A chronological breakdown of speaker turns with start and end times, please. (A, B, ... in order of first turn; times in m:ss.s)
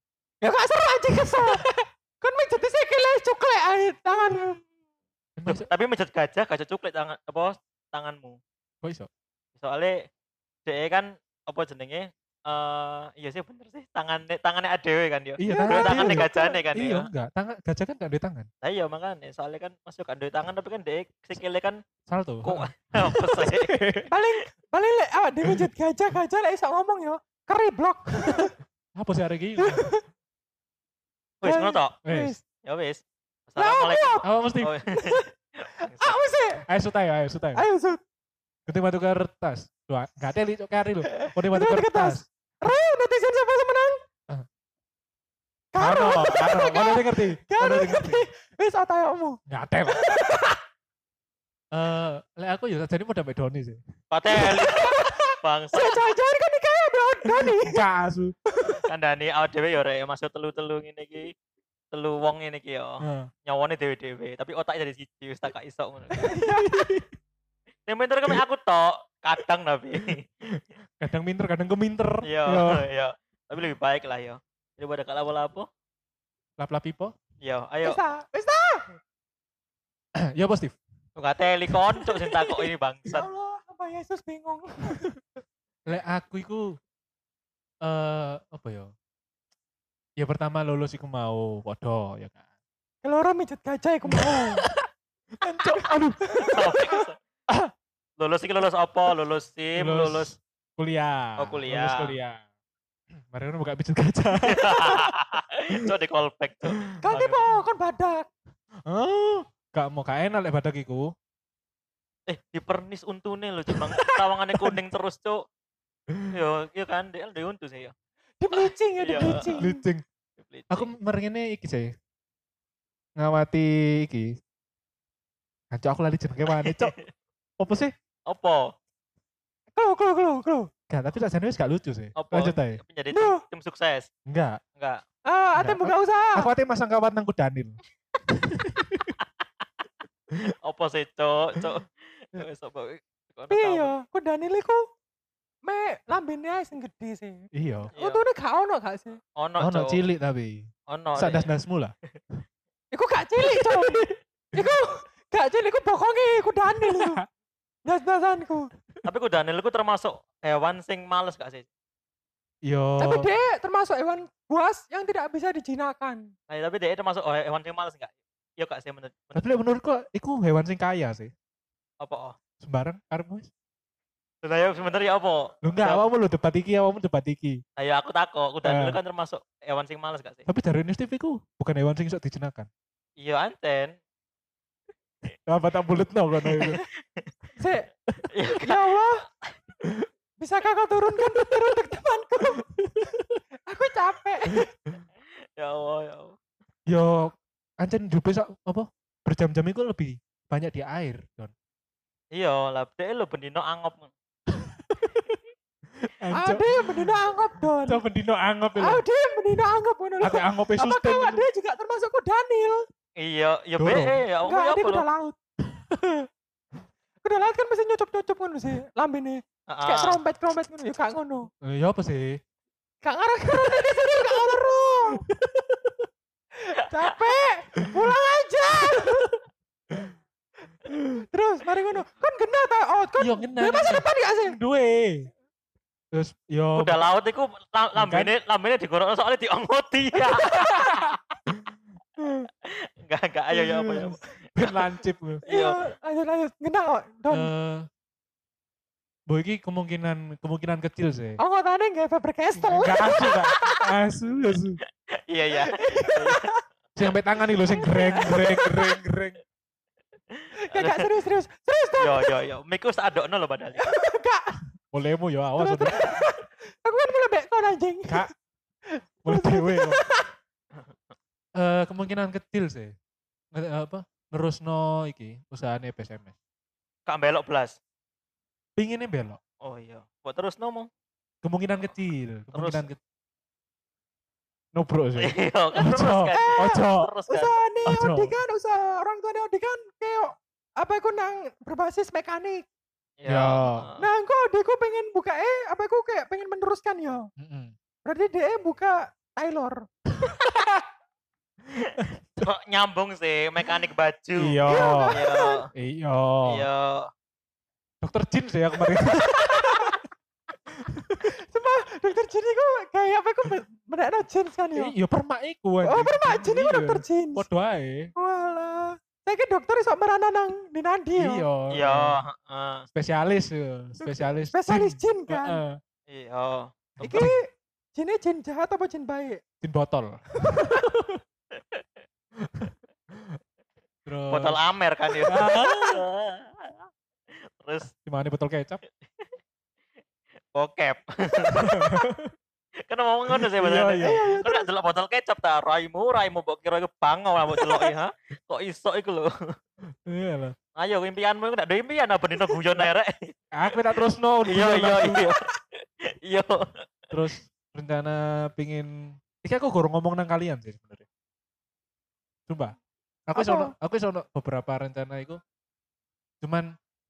0:00.4-0:04.6 A
0:05.4-0:05.7 B
0:05.5-0:08.4 C
0:08.8-0:09.1 B
0:09.6-0:10.0 C
0:10.7-0:17.1 C
0:15.4-0:18.5 B
0:15.4-0:16.6 A
0:18.6-0:21.8 C
0:22.1-0:24.1 B
0:22.4-0:23.7 C
0:24.1-0:28.5 A
0:29.0-0:29.9 B
0:29.6-0:30.0 A
0:31.4-0:32.0 C
0:31.4-0:32.4 A
0:32.0-0:32.3 B
0:32.6-0:35.3 C
0:33.6-0:34.3 A
0:34.2-0:34.7 B
0:34.9-0:35.3 A
0:35.8-0:36.2 C
0:35.8-0:36.6 A
0:36.7-0:37.6 B
0:37.6-0:38.0 A
0:38.7-0:42.3 B
0:41.2-0:44.0 A
0:45.7-0:49.4 A
0:45.8-0:48.2 B
0:49.5-0:50.0 B
0:49.9-0:50.6 A
0:51.7-0:53.8 B
0:54.1-0:56.0 C
0:54.4-0:57.8 A
0:57.4-0:58.4 B
0:58.6-0:58.8 A
0:58.8-1:01.3 C
1:01.9-1:06.4 C
1:03.0-1:03.3 B
1:06.1-1:07.0 A
1:06.6-1:07.1 B
1:07.9-1:10.3 C
1:10.5-1:12.8 B
1:12.2-1:15.7 C
1:16.6-1:17.1 B
1:17.4-1:18.0 C
1:17.8-1:19.0 A
1:20.2-1:20.8 B
1:21.2-1:23.3 C
1:22.1-1:25.1 A
1:25.9-1:26.8 B
1:27.8-1:28.9 B
1:30.2-1:32.4 B
1:33.0-1:34.6 A
1:34.1-1:34.9 B
1:35.4-1:37.0 A
1:35.5-1:36.2 B
1:36.5-1:37.2 C
1:38.2-1:40.3 C
1:39.8-1:42.4 B
1:41.4-1:42.2 C
1:43.3-1:45.1 B
1:44.4-1:47.5 C
1:47.0-1:48.3 A
1:48.9-1:51.1 B
1:52.3-1:55.4 C
1:56.3-1:57.9 C
1:58.4-1:59.8 A
1:58.5-1:59.7 C
1:59.2-2:00.0 B
2:00.4-2:00.9 C
2:00.7-2:01.9 B
2:03.2-2:04.4 B
2:05.7-2:06.9 B
2:06.5-2:07.1 C
2:07.6-2:07.9 B
2:08.3-2:08.7 C
2:09.8-2:10.7 A
2:10.9-2:12.8 B
2:12.2-2:14.1 C
2:13.1-2:13.4 A
2:14.3-2:14.6 B
2:14.8-2:15.0 C
2:15.3-2:16.5 A
2:15.6-2:17.8 B
2:18.3-2:19.1 B
2:20.4-2:23.9 C
2:23.5-2:24.8 A
2:25.6-2:29.2 A
2:27.5-2:27.9 B
2:27.9-2:28.2 C
2:29.4-2:30.0 C
2:29.6-2:31.9 B
2:30.9-2:31.5 C
2:32.9-2:37.2 A
2:33.4-2:34.7 B
2:36.8-2:37.3 B
2:37.9-2:38.7 A
2:39.0-2:41.7 C
2:42.6-2:43.3 B
2:43.0-2:46.3 A
2:46.5-2:49.6 C
2:49.4-2:51.3 B
2:52.0-2:52.4 C
2:52.6-2:53.5 B
2:54.4-2:56.0 C
2:55.6-2:57.6 B
2:57.8-3:00.5 C
2:58.6-2:59.0 B
3:00.5-3:02.7 B
3:03.2-3:04.0 C
3:05.5-3:06.8 B
3:06.4-3:07.3 C
3:07.6-3:07.9 A
3:08.3-3:09.5 C
3:08.6-3:09.2 A
3:10.4-3:12.6 A
3:12.7-3:13.4 B
3:13.7-3:14.7 A
3:15.6-3:16.4 C
3:16.9-3:21.5 B
3:22.3-3:24.1 C
3:24.5-3:25.4 B
3:26.0-3:27.2 B
3:26.4-3:28.0 A
3:27.8-3:29.0 B
3:28.8-3:32.8 A
3:30.2-3:31.4 B
3:33.2-3:35.0 C
3:33.8-3:34.2 B
3:34.4-3:35.4 A
3:35.7-3:36.3 B
3:37.2-3:41.5 A
3:39.7-3:40.2 C
3:41.6-3:42.4 B
3:43.0-3:45.2 A
3:43.7-3:44.6 B
3:45.2-3:46.1 B
3:46.6-3:49.3 A
3:48.9-3:49.4 B
3:50.9-3:51.2 B
3:51.3-3:54.6 A
3:53.2-3:55.3 B
3:56.1-3:57.0 B
3:56.8-4:00.6 C
3:58.0-3:58.3 B
4:00.3-4:01.1 A
4:01.5-4:02.5 B
4:02.6-4:04.9 C
4:03.5-4:05.4 B
4:05.5-4:05.8 C
4:05.5-4:07.5 A
4:07.3-4:07.9 B
4:09.3-4:11.4 B
4:11.4-4:13.8 A
4:12.6-4:14.8 B
4:15.3-4:16.5 C
4:15.6-4:16.6 A
4:17.0-4:19.4 B
4:17.6-4:19.0 A
4:20.3-4:21.1 C
4:20.6-4:22.3 A
4:22.0-4:23.8 C
4:23.8-4:24.6 A
4:24.9-4:26.2 B
4:25.6-4:28.2 A
4:29.2-4:30.3 A
4:29.2-4:30.0 B
4:31.6-4:33.0 B
4:33.5-4:36.3 B
4:37.1-4:37.8 C
4:38.8-4:39.4 B
4:39.6-4:40.9 C
4:41.4-4:43.0 B
4:42.5-4:42.9 C
4:44.8-4:47.1 B
4:45.2-4:47.5 C
4:46.3-4:52.7 A
4:47.9-4:48.4 B
4:53.2-4:54.0 C
4:53.3-4:53.8 B
4:54.0-4:57.3 A
4:57.4-4:57.7 B
4:58.1-4:59.8 A
5:01.8-5:05.7 C
5:02.0-5:02.5 B
5:04.4-5:05.2 B
5:04.7-5:05.6 A
5:05.8-5:06.6 B
5:06.4-5:07.1 C
5:08.0-5:09.9 B
5:09.1-5:10.0 A
5:10.9-5:11.3 B
5:11.4-5:14.9 A
5:14.8-5:18.1 B
5:15.8-5:17.4 A
5:18.2-5:21.4 A
5:21.2-5:22.2 B
5:21.7-5:22.8 C
5:23.0-5:25.8 B
5:24.1-5:25.6 A
5:26.1-5:27.2 C
5:27.0-5:27.4 B
5:27.0-5:27.4 A
5:28.0-5:29.4 A
5:29.6-5:31.2 B
5:30.4-5:30.8 A
5:32.4-5:33.4 B
5:34.1-5:34.6 B
5:34.3-5:36.9 C
5:35.2-5:36.0 B
5:37.6-5:37.9 C
5:38.0-5:38.8 B
5:40.6-5:41.8 C
5:41.5-5:42.3 B
5:42.9-5:49.6 C
5:43.3-5:44.2 B
5:44.0-5:44.7 A
5:50.1-5:50.6 B
5:50.8-5:53.3 C
5:53.5-5:55.2 B
5:54.4-5:56.8 C
5:57.1-6:01.1 B
6:02.5-6:02.8 B
6:03.3-6:05.4 B
6:03.4-6:03.7 A
6:06.4-6:06.8 B